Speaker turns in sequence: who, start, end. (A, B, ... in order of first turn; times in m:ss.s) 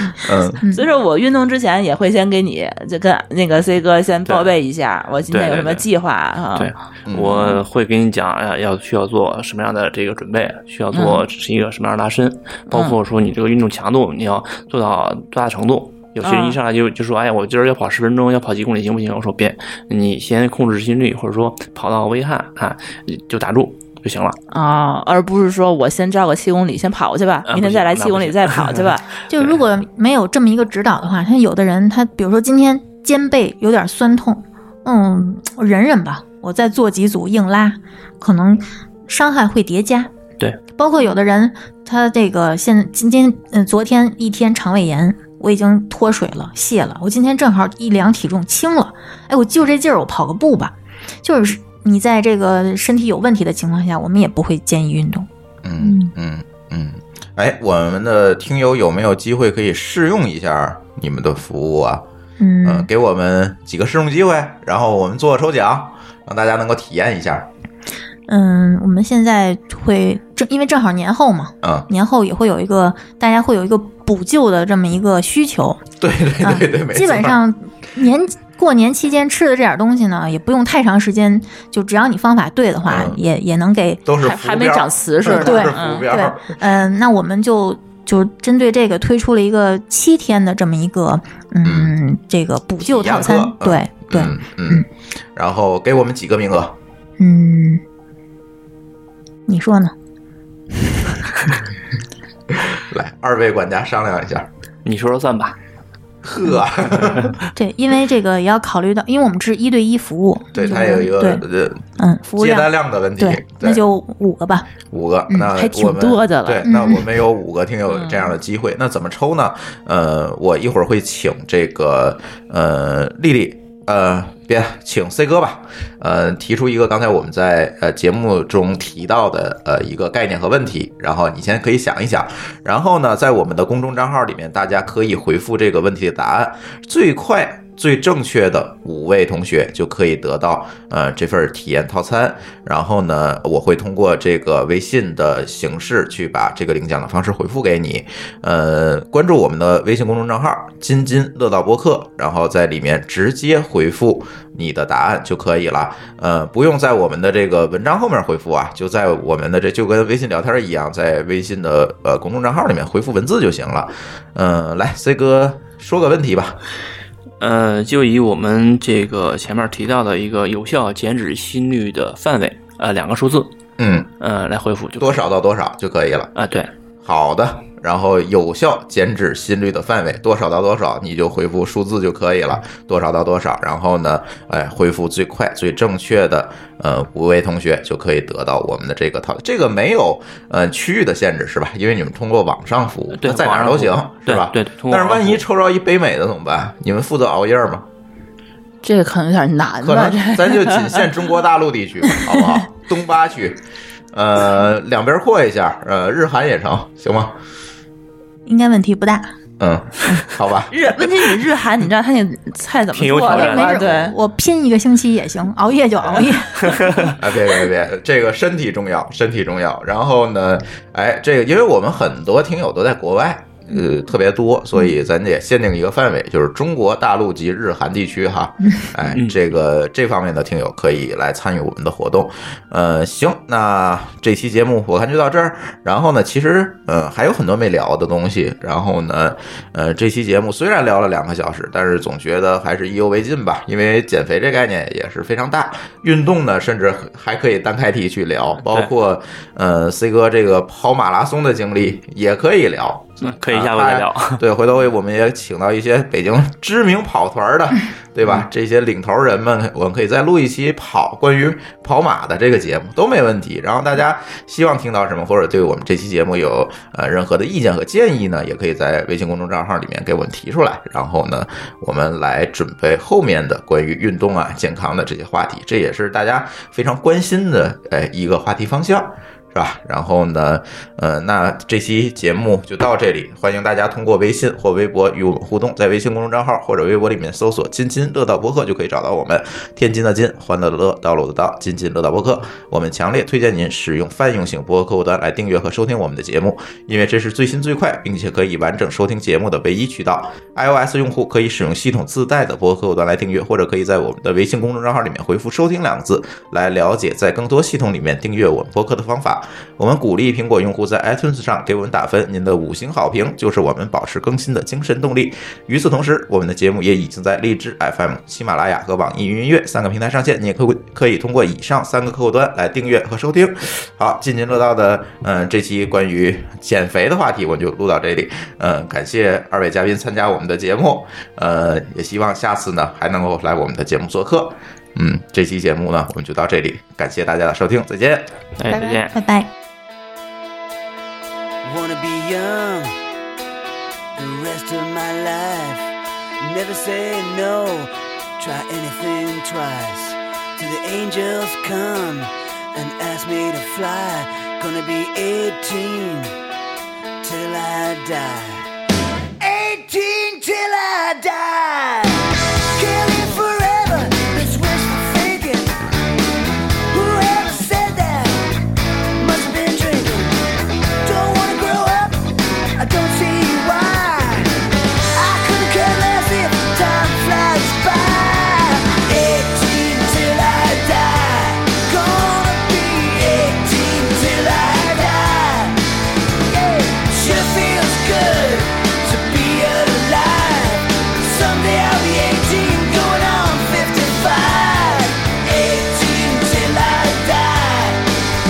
0:00.2-0:00.6 A
0:00.6-0:00.8 B
0:00.7-0:06.7 C
0:04.3-0:04.5 D
0:05.3-0:05.8 D
0:06.6-0:24.4 D
0:07.1-0:07.6 A
0:10.9-0:11.2 C
0:16.2-0:16.6 C
0:24.5-0:29.1 C
0:27.5-0:29.6 D
0:29.3-0:40.1 B
0:40.8-0:55.3 B
0:55.6-1:02.0 A
0:55.8-0:56.1 B
1:02.4-1:02.9 B
1:02.6-1:07.5 A
1:08.3-1:15.8 B
1:11.6-1:11.9 A
1:16.0-1:17.4 A
1:16.4-1:24.0 B
1:22.9-1:23.2 A
1:24.0-1:26.6 A
1:24.2-1:26.1 C
1:25.2-1:34.9 B
1:31.6-1:31.9 A
1:32.8-1:36.8 A
1:37.2-1:37.8 B
1:39.5-1:39.9 B
1:42.5-1:44.5 A
1:44.8-1:45.6 D
1:46.2-1:47.3 A
1:47.6-1:51.4 B
1:50.5-1:51.9 A
1:52.0-1:54.7 B
1:52.4-1:53.8 A
1:54.9-2:46.6 A
1:55.5-1:56.7 C
1:56.6-1:57.0 B
1:57.9-1:58.2 C
2:47.4-2:53.5 D
2:53.8-2:54.1 A
2:54.2-2:55.2 D
2:55.0-2:56.3 A
2:56.4-2:56.7 D
2:57.0-3:17.9 A
3:13.2-3:15.4 D
3:18.8-3:21.1 C
3:19.8-3:23.6 A
3:24.1-3:27.4 A
3:28.5-3:29.3 B
3:29.6-3:30.7 A
3:30.1-3:34.2 C
3:32.9-3:33.9 D
3:33.3-3:37.1 B
3:36.8-3:37.1 D
3:37.2-5:38.3 A
3:49.1-3:49.4 D
4:13.2-4:14.4 D
5:38.6-5:39.1 D
5:38.7-5:39.5 B
5:41.6-5:43.0 E
5:44.1-5:56.3 E
5:57.2-5:58.7 E
5:59.4-6:05.8 E
6:06.9-6:08.5 E
6:09.2-6:10.4 E
6:11.0-6:14.6 E
6:15.1-6:25.8 E
6:26.4-6:38.0 E